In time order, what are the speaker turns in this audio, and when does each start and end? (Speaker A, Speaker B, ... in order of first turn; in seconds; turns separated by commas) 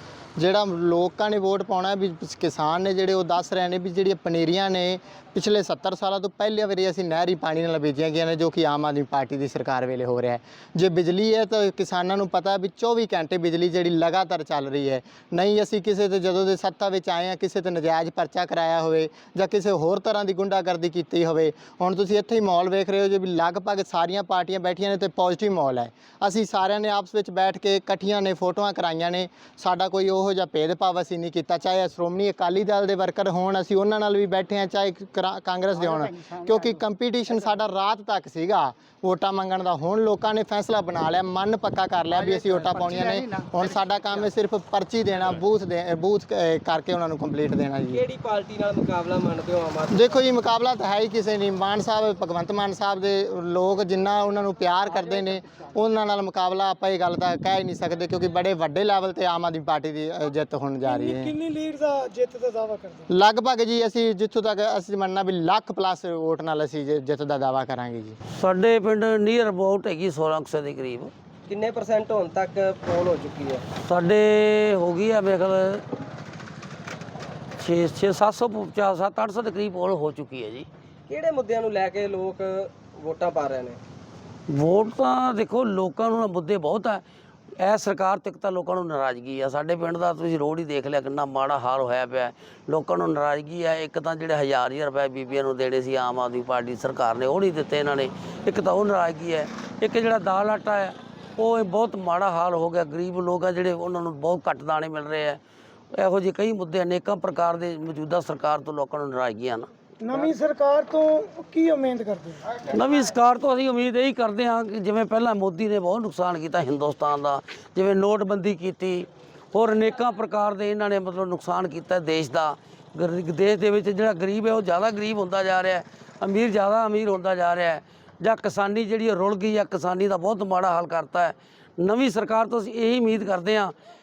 Speaker A: 0.4-48.0, Speaker B: 47.9-50.1, Speaker A: 49.9-61.4, Speaker C: 60.8-63.1, Speaker A: 63.1-68.2, Speaker D: 68.3-71.1, Speaker B: 71.5-73.6, Speaker D: 73.8-75.8, Speaker D: 77.6-80.7, Speaker B: 81.1-83.8, Speaker D: 84.5-87.0, Speaker D: 87.6-105.4, Speaker D: 106.0-109.7, Speaker C: 110.0-112.5, Speaker D: 112.7-133.7